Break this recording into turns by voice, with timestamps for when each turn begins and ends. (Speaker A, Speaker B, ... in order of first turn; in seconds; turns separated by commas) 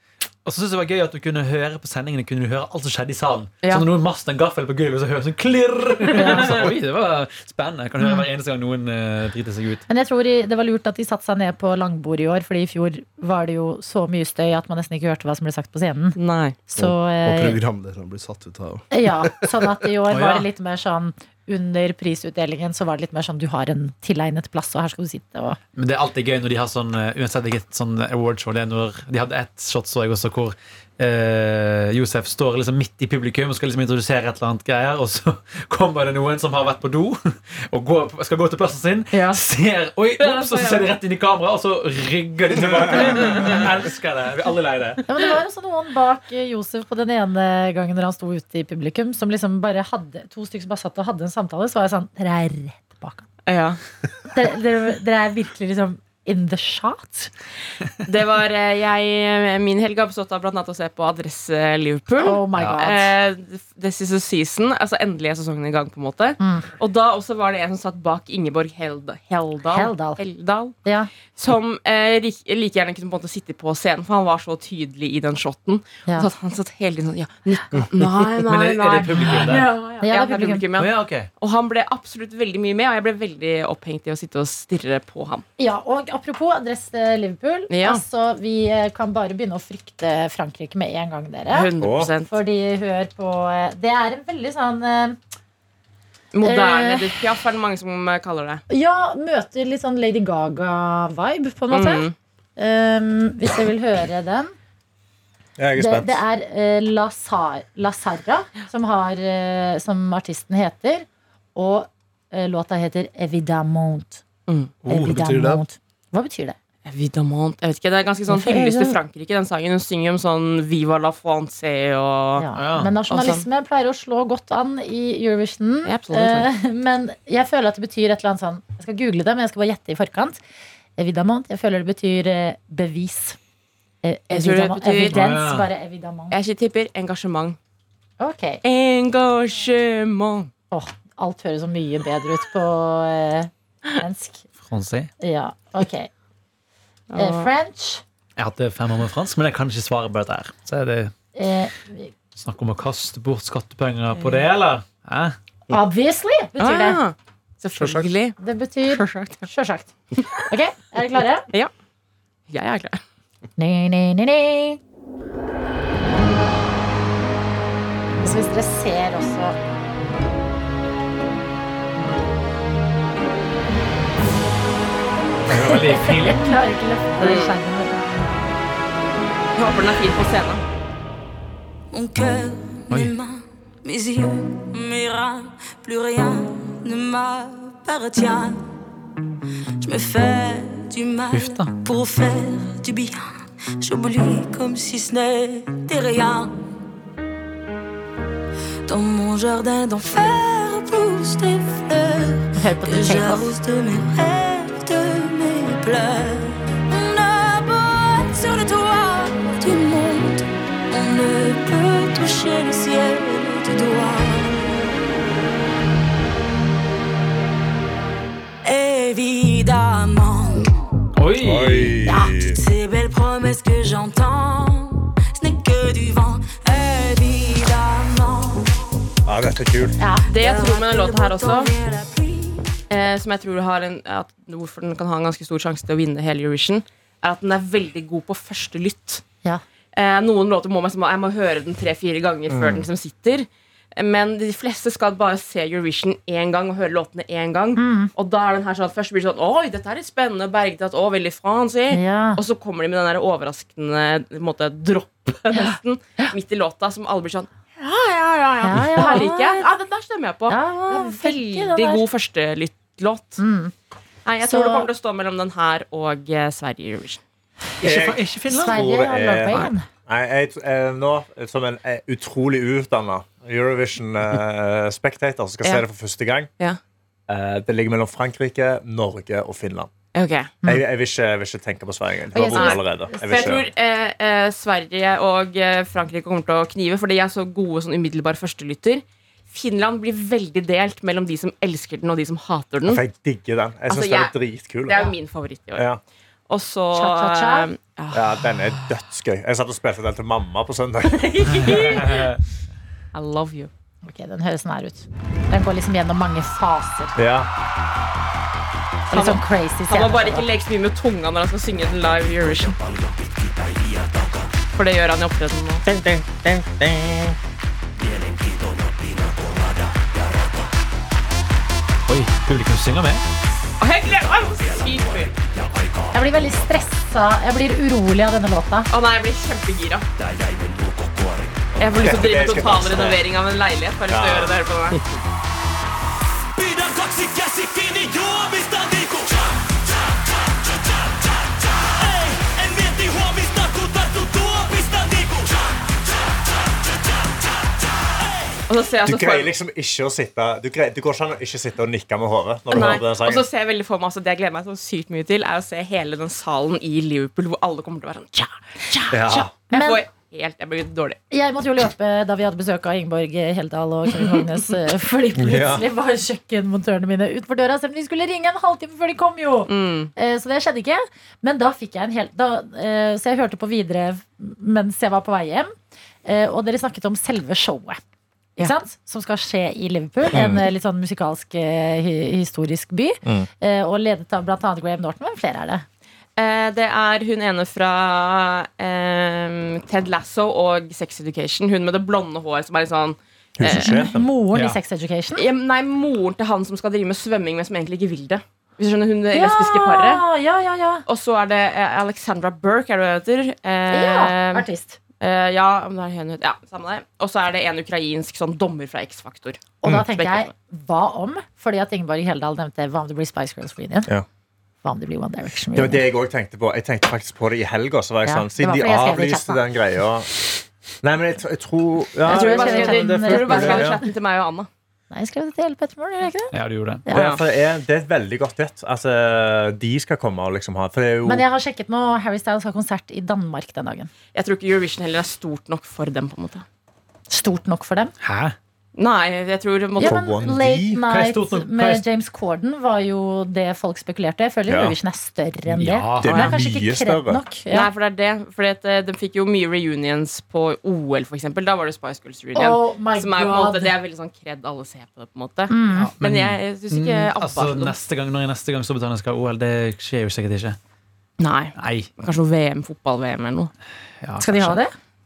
Speaker A: 0.5-9.8, Speaker B: 6.1-6.6, Speaker C: 6.2-6.6, Speaker C: 9.9-17.6, Speaker B: 16.2-16.6, Speaker D: 16.8-19.8, Speaker C: 18.9-25.6, Speaker A: 20.1-20.5, Speaker A: 25.8-45.0, Speaker B: 40.2-40.9, Speaker E: 42.8-43.3, Speaker C: 45.1-53.2, Speaker B: 53.5-53.8, Speaker C: 54.3-57.3, Speaker B: 58.0-70.8, Speaker C: 62.2-63.1, Speaker C: 66.4-66.7, Speaker C: 69.7-70.2, Speaker C: 70.8-71.1, Speaker B: 71.3-85.5, Speaker A: 78.4-79.7, Speaker C: 79.4-80.7, Speaker A: 80.8-81.3, Speaker C: 85.6-91.7, Speaker B: 87.7-88.0, Speaker B: 91.5-92.3, Speaker E: 91.8-92.1, Speaker C: 92.3-95.2, Speaker B: 96.3-98.6, Speaker C: 96.4-97.1, Speaker C: 98.7-104.5, Speaker B: 101.7-102.1, Speaker E: 105.6-106.2, Speaker C: 105.8-114.2, Speaker B: 114.5-114.7, Speaker D: 114.8-115.6, Speaker C: 114.9-116.6, Speaker B: 116.9-122.5, Speaker C: 118.3-119.0, Speaker C: 122.4-130.4, Speaker A: 122.6-123.0, Speaker B: 123.1-123.5, Speaker B: 125.8-126.5, Speaker C: 131.0-133.4, Speaker C: 134.0-136.3, Speaker B: 134.3-135.2, Speaker A: 135.1-135.7, Speaker B: 136.3-137.6, Speaker C: 138.2-138.6, Speaker B: 138.6-140.5, Speaker C: 140.7-144.4, Speaker A: 144.6-145.1, Speaker C: 145.2-146.1, Speaker B: 147.1-147.5, Speaker C: 147.2-148.0, Speaker A: 148.4-151.1, Speaker C: 151.3-152.1, Speaker A: 152.4-155.3, Speaker C: 155.7-157.0, Speaker B: 156.6-158.4, Speaker D: 157.8-158.1, Speaker C: 158.4-161.5, Speaker B: 158.9-159.5, Speaker B: 162.5-163.0, Speaker C: 163.6-164.8, Speaker C: 168.2-169.6, Speaker A: 175.5-176.6, Speaker C: 175.5-178.0, Speaker B: 177.2-177.6, Speaker B: 179.6-180.6, Speaker F: 181.9-188.7, Speaker F: 189.8-196.5, Speaker A: 191.3-191.8, Speaker F: 198.9-214.9, Speaker C: 202.6-203.5, Speaker F: 218.6-220.7, Speaker A: 221.2-222.0, Speaker E: 221.4-222.6, Speaker C: 222.0-222.4, Speaker F: 222.4-228.9, Speaker E: 229.3-230.0, Speaker C: 230.0-230.3, Speaker F: 230.3-232.8, Speaker B: 230.3-231.7, Speaker B: 232.9-239.2, Speaker B: 239.9-263.4, Speaker E: 242.5-242.9, Speaker C: 247.8-248.1, Speaker C: 251.9-252.4, Speaker C: 255.5-256.3, Speaker C: 258.6-259.7, Speaker C: 260.5-262.0, Speaker C: 263.4-263.7, Speaker B: 264.2-267.2, Speaker C: 264.4-264.9, Speaker A: 267.8-268.8, Speaker E: 267.8-276.5, Speaker C: 268.5-269.9, Speaker E: 277.3-279.9, Speaker B: 280.1-280.5, Speaker E: 280.6-283.7, Speaker C: 282.3-283.6, Speaker B: 282.5-293.0, Speaker E: 292.9-295.1, Speaker B: 293.9-295.9, Speaker B: 296.5-298.8, Speaker C: 296.9-297.7, Speaker E: 298.1-301.8, Speaker B: 301.0-302.4, Speaker A: 301.6-302.4, Speaker B: 303.1-303.7, Speaker C: 304.1-307.2, Speaker E: 307.2-307.5, Speaker C: 309.1-310.5, Speaker B: 309.1-312.8, Speaker B: 314.8-315.8, Speaker E: 315.9-317.4, Speaker A: 322.1-323.2, Speaker B: 323.8-325.4, Speaker C: 326.1-328.9, Speaker B: 328.9-330.1, Speaker B: 331.8-335.0, Speaker E: 332.0-333.2, Speaker E: 334.1-334.6, Speaker B: 348.7-349.5, Speaker E: 349.1-353.4, Speaker B: 352.7-358.5, Speaker C: 358.9-360.0, Speaker E: 359.1-359.5, Speaker B: 359.7-361.2, Speaker C: 361.3-375.7, Speaker B: 364.2-364.4, Speaker E: 365.4-365.9, Speaker B: 369.7-370.1, Speaker C: 376.2-378.0, Speaker C: 378.6-385.9, Speaker E: 380.3-380.7, Speaker B: 386.4-394.0, Speaker E: 393.6-394.3, Speaker C: 393.6-395.5, Speaker A: 394.5-394.8, Speaker B: 395.4-400.2, Speaker C: 399.3-401.0, Speaker B: 401.1-404.7, Speaker C: 403.9-405.0, Speaker B: 405.2-410.5, Speaker C: 409.8-414.1, Speaker C: 414.8-416.1, Speaker E: 415.7-420.4, Speaker C: 418.2-419.6, Speaker E: 421.0-424.0, Speaker C: 422.2-424.1, Speaker B: 422.3-424.7, Speaker C: 425.1-427.4, Speaker A: 426.5-427.1, Speaker E: 427.1-431.4, Speaker B: 427.1-427.4, Speaker C: 431.2-434.1, Speaker B: 434.3-436.6, Speaker C: 437.3-438.1, Speaker A: 438.2-438.6, Speaker B: 439.0-440.3, Speaker C: 440.0-447.9, Speaker E: 440.0-441.0, Speaker A: 441.1-442.0, Speaker E: 444.7-445.0, Speaker A: 445.7-446.6, Speaker E: 446.2-447.4, Speaker B: 446.3-446.5, Speaker B: 447.7-458.0, Speaker C: 452.6-453.9, Speaker C: 455.7-456.1, Speaker A: 455.9-460.8, Speaker B: 461.4-463.7, Speaker A: 461.8-462.1, Speaker A: 464.2-464.8, Speaker C: 464.4-464.9